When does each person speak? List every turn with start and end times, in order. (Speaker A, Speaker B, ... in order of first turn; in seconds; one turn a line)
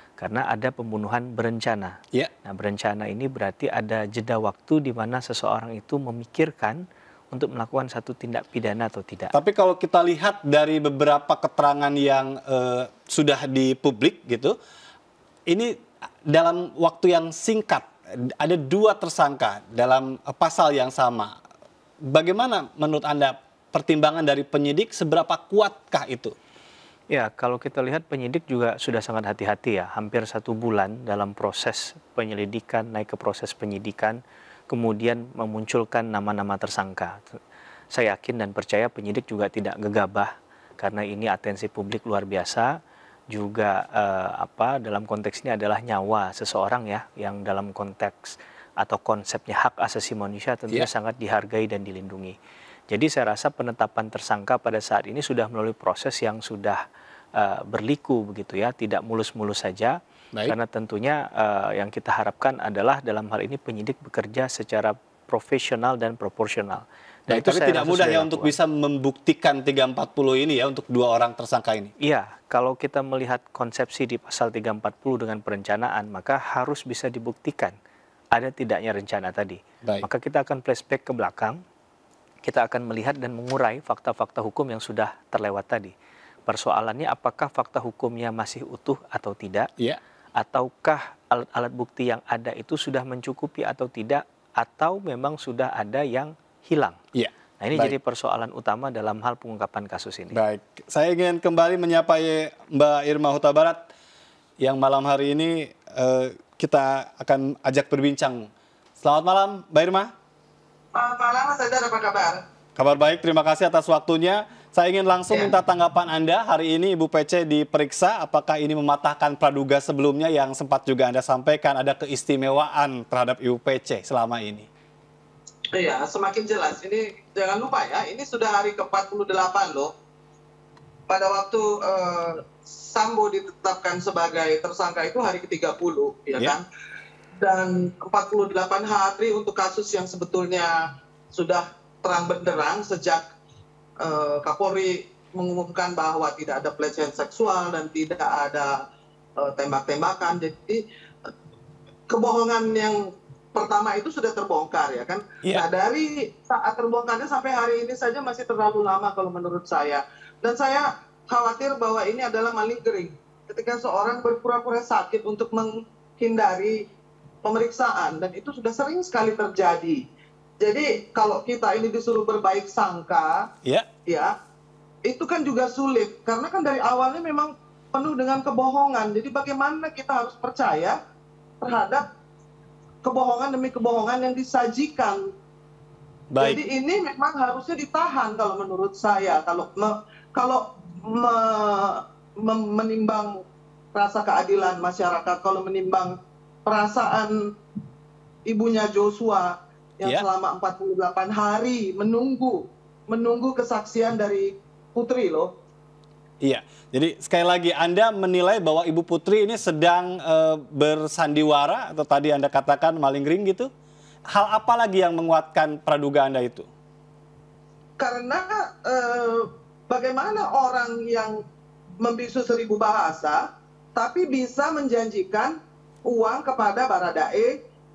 Speaker A: 0.2-9.3
Speaker B: 9.3-14.6
Speaker B: 15.5-15.8
Speaker B: 16.3-21.4
Speaker B: 22.1-26.4
Speaker A: 27.1-37.2
Speaker A: 37.9-42.7
Speaker A: 43.3-52.4
Speaker A: 52.9-56.8
Speaker A: 57.4-68.5
Speaker B: 67.3-71.9
Speaker A: 72.0-77.8
Speaker A: 78.3-81.6
Speaker A: 82.5-85.9
Speaker A: 86.5-89.7
Speaker A: 90.4-97.0
Speaker B: 97.1-98.0
Speaker A: 97.6-100.4
Speaker B: 100.3-103.9
Speaker B: 104.6-110.1
Speaker C: 111.0-112.4
Speaker B: 112.8-124.7
Speaker C: 125.8-129.8
Speaker C: 131.1-132.2
Speaker C: 132.9-136.6
Speaker C: 137.5-140.7
Speaker C: 141.4-143.2
Speaker C: 144.1-148.7
Speaker C: 149.5-150.8
Speaker C: 152.1-152.9
Speaker C: 153.6-165.7
Speaker C: 166.2-166.8
Speaker C: 167.5-170.0
Speaker C: 170.6-173.3
Speaker C: 175.1-180.9
Speaker C: 181.6-182.0
Speaker C: 183.1-185.2
Speaker B: 186.3-186.6
Speaker C: 186.4-190.6
Speaker C: 191.1-191.8
Speaker C: 192.5-193.3
Speaker C: 194.0-196.1
Speaker C: 196.7-197.3
Speaker C: 198.5-199.5
Speaker C: 200.0-202.5
Speaker C: 203.1-205.4
Speaker B: 206.4-213.7
Speaker B: 214.3-216.7
Speaker C: 218.0-219.2
Speaker C: 219.9-221.3
Speaker C: 222.0-223.4
Speaker C: 224.0-225.5
Speaker C: 226.1-227.5